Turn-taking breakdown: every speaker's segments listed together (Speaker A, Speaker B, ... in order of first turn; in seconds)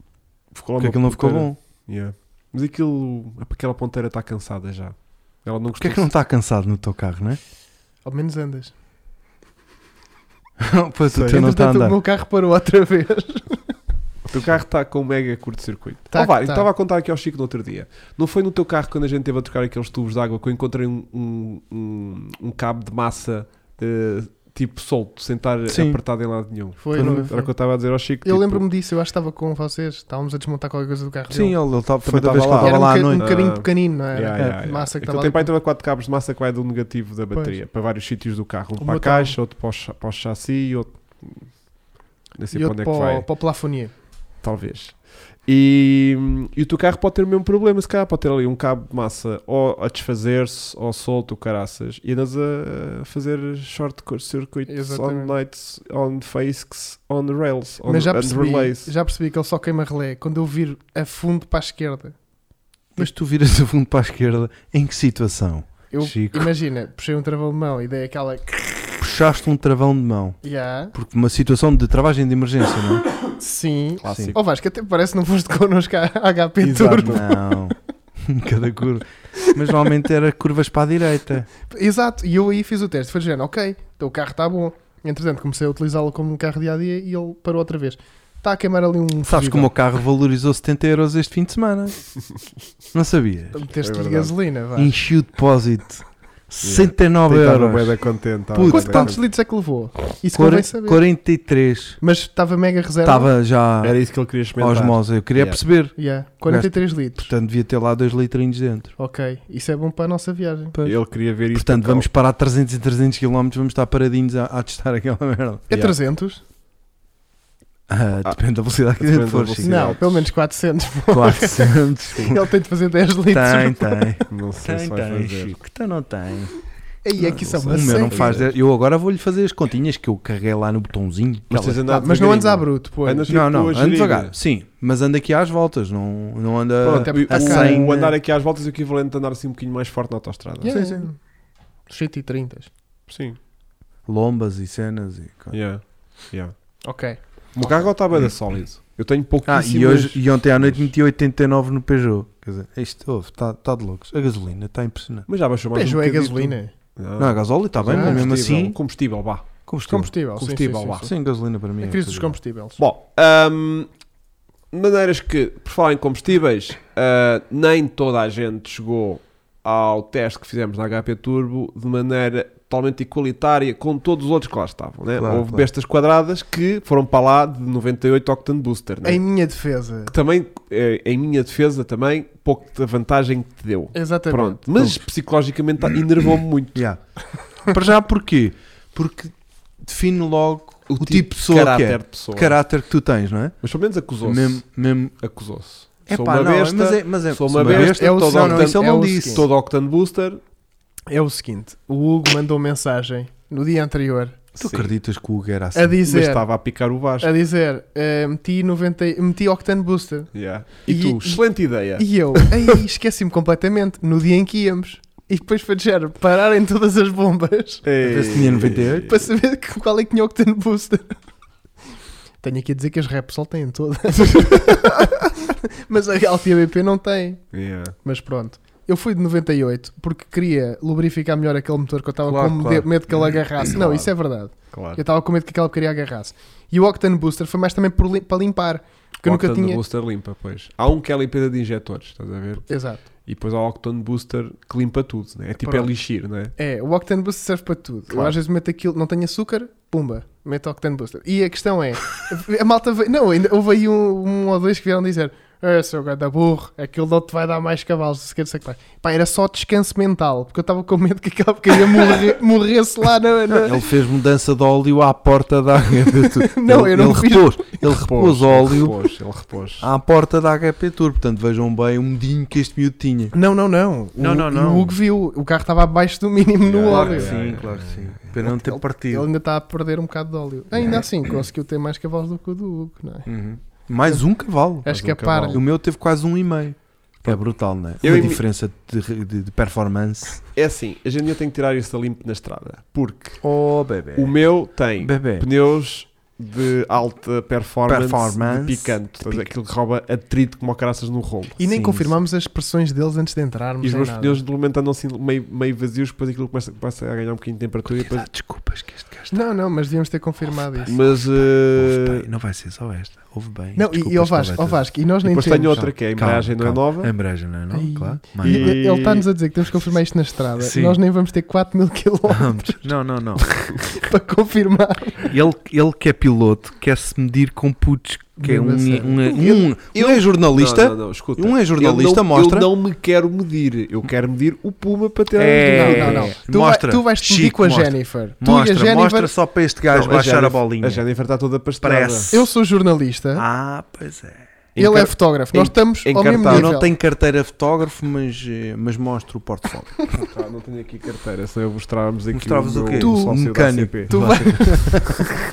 Speaker A: 0.5-6.1, 11.1-11.4, 14.3-28.6, 32.0-41.6, 42.4-43.3, 44.4-58.9, 74.0-74.4, 76.6-77.3, 93.8-94.3, 96.6-99.2, 103.8-105.6, 110.8-112.1, 115.7-116.0, 118.2-120.3, 124.3-125.5, 127.6-128.5, 131.5-134.3, 136.8-140.7, 143.1-143.4, 145.5-146.5, 147.6-150.9, 155.3-159.5, 160.4-161.1, 162.8-163.9, 164.7-179.2, 180.1-186.8, 190.9-192.6, 193.6-194.6, 195.2-200.4, 204.6-204.9, 206.1-207.3, 210.3-212.7, 217.8-219.1, 227.5-228.0, 233.7-234.1, 234.7-235.0, 239.2-246.6, 248.1-248.4, 268.0-269.9, 276.6-278.2, 284.9-285.6, 288.0-288.4, 290.6-293.4, 294.1-301.6, 303.8-308.3, 310.9-312.3, 315.2-317.1, 318.4-319.3, 329.9-336.4, 339.9-342.3, 344.8-346.7, 350.2-355.4
Speaker B: 0.8-1.6, 5.8-7.4, 10.6-12.0, 25.7-26.0, 26.9-27.3, 31.3-33.3, 63.0-66.5, 69.0-70.4, 70.9-73.1, 74.1-74.3, 77.0-81.5, 89.3-92.1, 92.9-93.6, 94.8-99.2, 100.3-102.0, 103.0-108.9, 110.7-115.7, 117.9-120.0, 121.1-122.4, 123.3-126.6, 127.2-131.8, 133.3-138.2, 140.7-141.1, 144.1-145.6, 149.5-155.3, 157.2-158.8, 159.7-160.1, 161.0-162.4, 175.2-175.7, 184.8-185.0, 186.7-193.6, 194.2-195.2, 196.1-199.5, 204.6-206.0, 218.0-219.2, 232.3-232.9, 263.5-269.0, 269.8-273.4, 274.2-274.9, 276.9-279.3, 283.3-284.9, 285.4-290.4, 293.4-294.4, 295.0-295.5, 297.9-299.5, 301.6-302.1, 307.9-309.4, 311.8-314.9, 315.7-318.8, 320.6-321.0, 322.3-323.5, 325.2-332.7, 335.4-341.0, 341.8-342.4, 343.4-344.5, 346.4-350.3, 352.3-355.2
Speaker C: 8.1-8.7, 11.2-13.7, 16.1-16.7, 26.8-27.5, 28.2-31.6, 32.6-35.5, 38.8-39.4, 42.5-43.9, 54.7-55.4, 57.9-62.2, 65.9-69.0, 70.4-70.9, 73.4-77.3, 81.7-89.7, 93.5-95.0, 98.7-101.0, 102.0-103.3, 106.0-107.3, 109.0-110.8, 115.7-116.4, 119.6-124.2, 127.0-128.4, 131.9-133.3, 136.9-137.9, 140.6-141.2, 141.9-142.7, 146.8-147.2, 155.7-156.7, 157.9-158.3, 159.9-161.1, 161.8-162.8, 179.0-180.1, 183.9-184.6, 197.7-199.5, 201.1-204.5, 205.7-206.5, 207.2-210.3, 210.9-217.8, 219.0-221.2, 222.4-227.5, 228.0-239.8, 242.7-243.0, 245.6-245.9, 246.6-263.9, 266.4-267.8, 273.3-277.4, 278.4-283.3, 284.8-285.6, 301.6-304.4, 309.3-311.0, 313.8-315.9, 317.7-322.9, 323.8-325.3, 328.4-329.6, 335.7-339.3, 342.3-343.4, 344.8-346.9, 353.0-353.4, 354.1-355.2